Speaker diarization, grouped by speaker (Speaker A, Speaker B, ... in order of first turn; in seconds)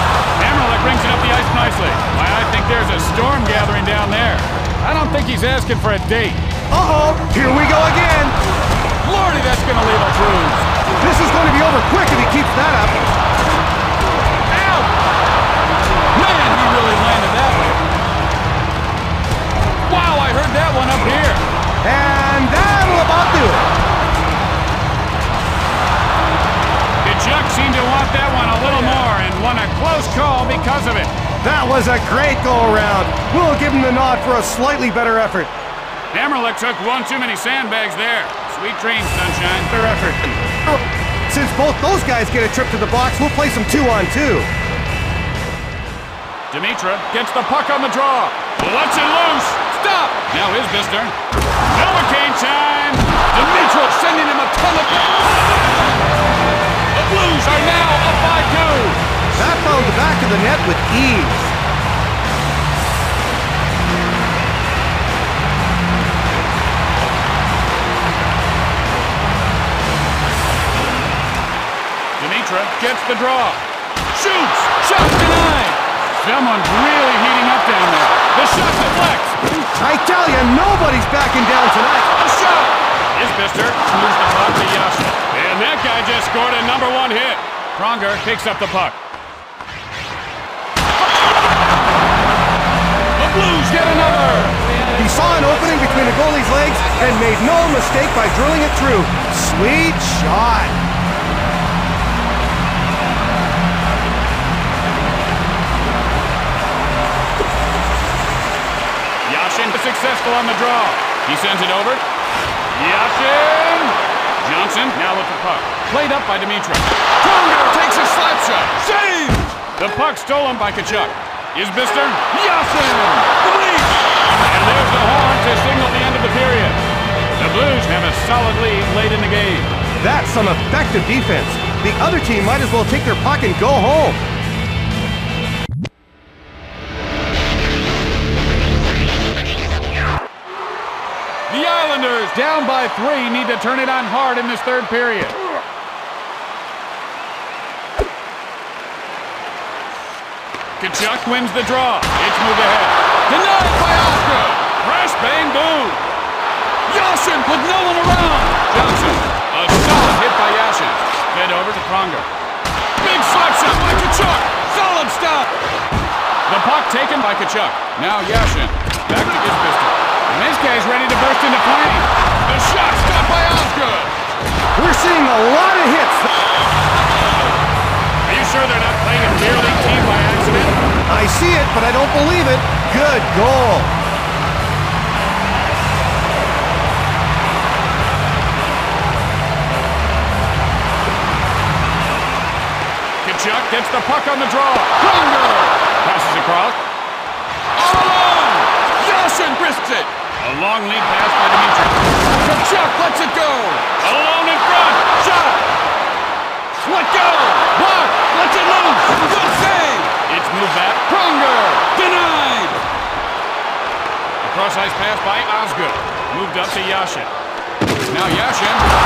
Speaker A: 0.3-6.4, 9.0-10.7, 14.5-14.9, 16.1-17.8, 19.8-21.4, 27.0-31.1, 36.1-39.7, 46.5-55.5, 56.9-59.0, 72.2-79.6, 82.2-89.0, 93.2-94.6, 109.2-112.0, 112.7-126.8, 127.3-129.7, 141.5-145.4, 150.8-156.0, 156.9-162.3, 163.0-165.5, 166.4-174.1, 178.2-180.8, 193.2-196.8, 197.7-205.6, 206.8-212.8, 214.4-217.3, 218.1-218.8
Speaker B: 6.7-8.3, 11.0-13.0, 21.8-23.7, 31.4-35.5, 39.7-44.5, 59.3-61.5, 79.8-82.1, 94.9-100.8, 130.0-134.2, 174.8-176.3, 181.1-183.9